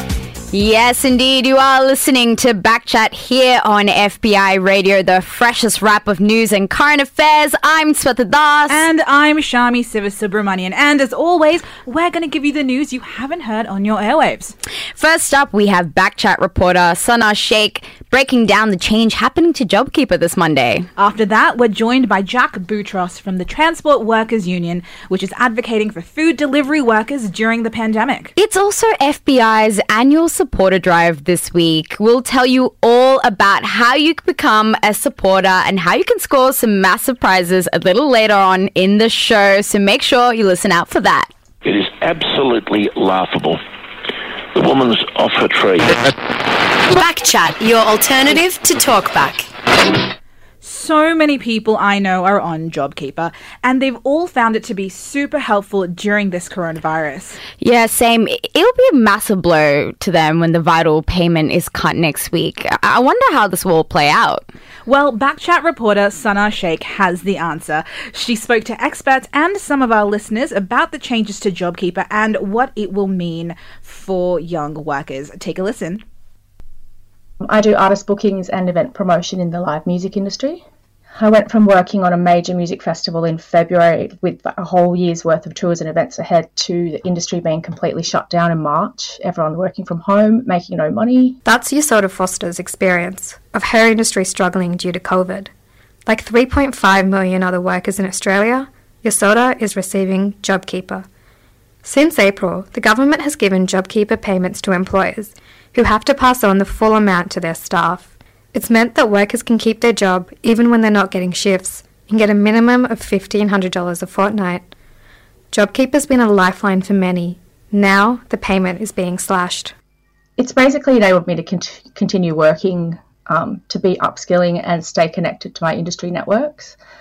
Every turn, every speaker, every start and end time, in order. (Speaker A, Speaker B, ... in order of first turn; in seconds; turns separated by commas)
Speaker A: 0.5-8.8, Speaker B: 8.7-14.5, Speaker A: 14.9-20.9, Speaker B: 21.0-28.3, Speaker A: 28.4-41.3, Speaker C: 41.6-43.6, Speaker C: 44.5-46.2, Speaker D: 46.9-49.5, Speaker B: 50.6-57.4, Speaker A: 57.6-64.5, Speaker B: 64.8-76.0, Speaker E: 77.4-91.4, Speaker F: 91.5-95.5, Speaker F: 96.0-101.1, Speaker F: 101.8-114.7, Speaker F: 115.5-119.7, Speaker E: 120.4-126.8